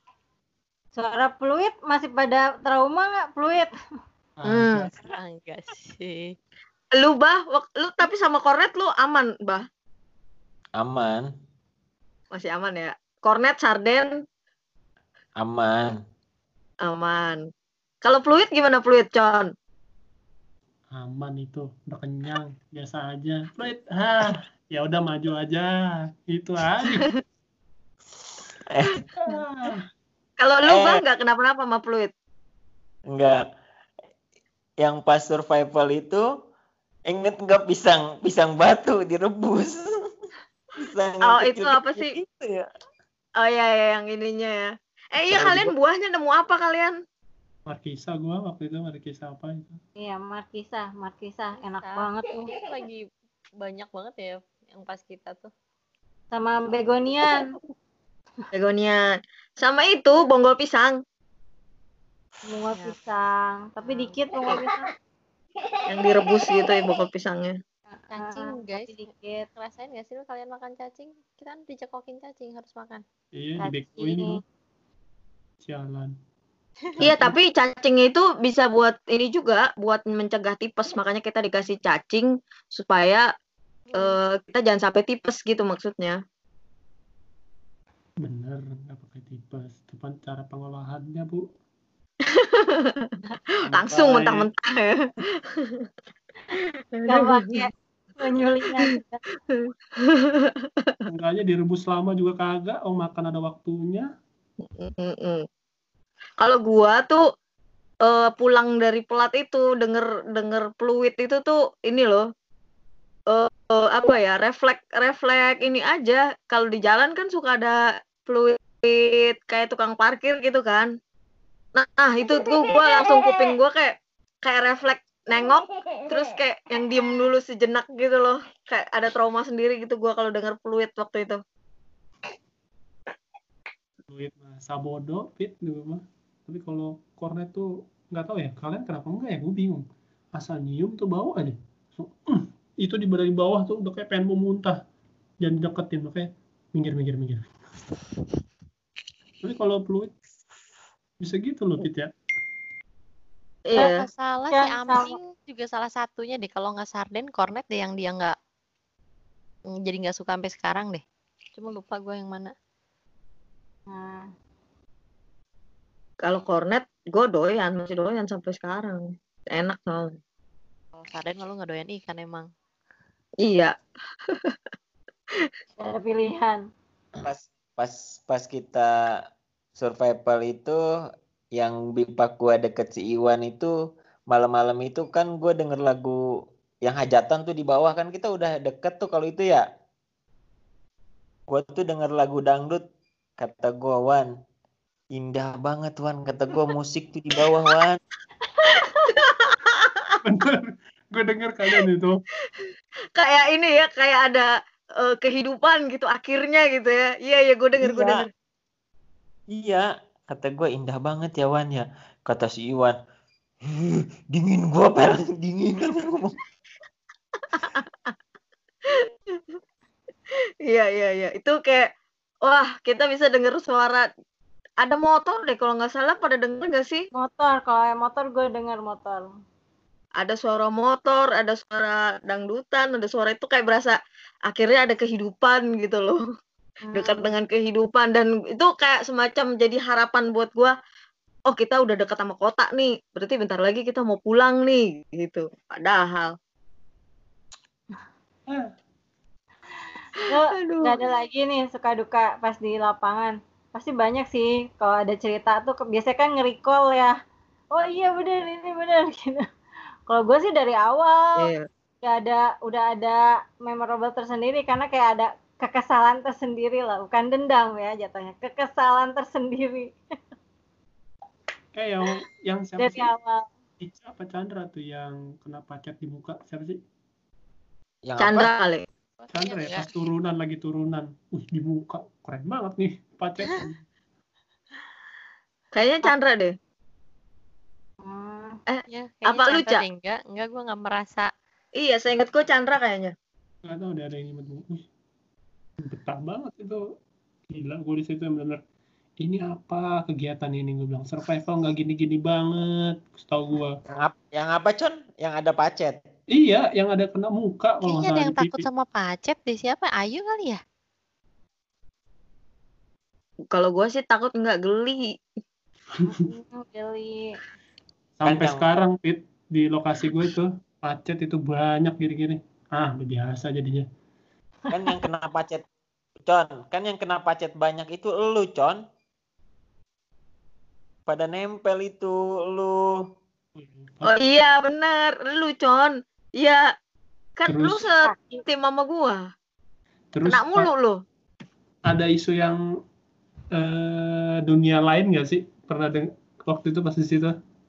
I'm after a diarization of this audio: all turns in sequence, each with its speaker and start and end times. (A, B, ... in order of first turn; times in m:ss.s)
0:01.0-0:03.7 A
0:04.4-0:04.9 B
0:04.5-0:04.9 C
0:05.0-0:06.3 D
0:07.0-0:09.6 C
0:10.8-0:11.3 E
0:12.3-0:14.2 C
0:15.4-0:16.0 E
0:16.8-0:17.4 C
0:18.0-0:19.5 C
0:20.9-0:27.1 B
0:26.8-0:27.2 C
0:28.6-0:29.0 E
0:29.2-0:29.8 B
0:30.4-0:32.1 C
0:30.6-0:31.0 E
0:33.1-0:33.4 E
0:34.8-0:36.2 E
0:37.1-0:39.9 E
0:40.8-0:42.6 E
0:41.2-0:42.1 C
0:43.4-0:47.0 C
0:45.2-0:45.7 E
0:47.7-0:49.8 B
0:50.0-0:52.5 A
0:51.6-0:53.1 D
0:53.6-0:55.5 D
0:56.3-0:57.5 A
0:58.5-0:59.0 C
0:59.6-1:01.0 C
1:02.5-1:04.9 A
1:03.8-1:04.5 D
1:05.9-1:07.6 C
1:08.0-1:09.5 A
1:08.1-1:13.0 D
1:13.3-1:14.4 B
1:13.6-1:14.4 D
1:15.6-1:16.1 B
1:17.0-1:17.4 B
1:17.0-1:23.3 C
1:23.9-1:24.2 D
1:23.9-1:26.2 C
1:28.2-1:31.4 B
1:32.2-1:33.1 C
1:33.6-1:34.5 B
1:33.7-1:35.9 C
1:36.9-1:37.5 C
1:37.1-1:39.2 A
1:39.5-1:41.0 C
1:41.1-1:44.1 B
1:44.6-1:45.4 C
1:46.4-1:47.2 C
1:48.0-1:52.3 C
1:53.3-2:00.9 C
2:01.8-2:11.4 C
2:14.1-2:19.8 B
2:20.3-2:24.8 B
2:25.4-2:27.5 B
2:29.4-2:30.1 B
2:31.2-2:32.1 B
2:33.7-2:34.1 C
2:33.8-2:38.3 D
2:34.5-2:35.2 A
2:39.7-2:41.0 D
2:41.6-2:42.5 D
2:43.9-2:44.3 A
2:46.2-2:50.1 C
2:50.9-2:52.5 D
2:53.4-2:53.8 C
2:54.3-2:54.5 C
2:55.8-2:56.6 A
2:57.2-2:59.2 E
2:59.8-3:00.8 E
3:01.6-3:03.7 E
3:04.3-3:06.2 E
3:06.8-3:09.6 E
3:11.5-3:12.8 E
3:13.4-3:14.3 E
3:15.1-3:18.0 E
3:18.6-3:19.1 A
3:19.1-3:20.2 C
3:20.2-3:22.2 B
3:22.5-3:28.3 C
3:27.8-3:28.2 E
3:29.5-3:33.0 E
3:33.6-3:36.4 E
3:37.4-3:38.1 C
3:38.9-3:39.6 C
3:40.3-3:41.9 C
3:42.4-3:44.1 C
3:44.8-3:47.1 C
3:47.1-3:49.3 A
3:50.2-3:54.0 C
3:54.5-3:56.2 C
3:56.8-3:57.3 A
3:56.9-4:00.7 C
4:01.5-4:06.3 C
4:10.2-4:17.2 A
4:10.2-4:11.0 C
4:17.7-4:19.4 A
4:20.1-4:21.5 A
4:21.4-4:21.6 C
4:22.0-4:29.9 A
4:31.7-4:33.1 B
4:32.8-4:33.4 A
4:33.8-4:36.8 B
4:38.1-4:38.5 E
4:38.2-4:38.8 C
4:39.2-4:39.9 D
4:39.3-4:43.8 B
4:45.7-4:46.5 C
4:48.0-4:48.6 A
4:48.7-4:49.8 C
4:48.9-4:51.3 D
4:51.8-4:53.1 C
4:53.7-4:54.8 B
4:55.8-4:56.8 B
4:57.5-4:58.6 B
4:59.2-5:03.8 B
5:03.9-5:06.0 E
5:06.3-5:08.7 B
5:07.8-5:10.6 D
5:13.5-5:15.2 C
5:16.1-5:17.4 A
5:18.2-5:23.8 B
5:18.2-5:18.6 E
5:24.7-5:25.6 E
5:26.2-5:28.8 E
5:31.1-5:33.0 E
5:33.6-5:34.2 B
5:34.1-5:36.6 C
5:37.4-5:39.2 C
5:37.5-5:37.8 B
5:38.0-5:38.4 A
5:40.1-5:40.7 B
5:40.2-5:41.0 C
5:41.9-5:42.6 B
5:43.5-5:47.3 B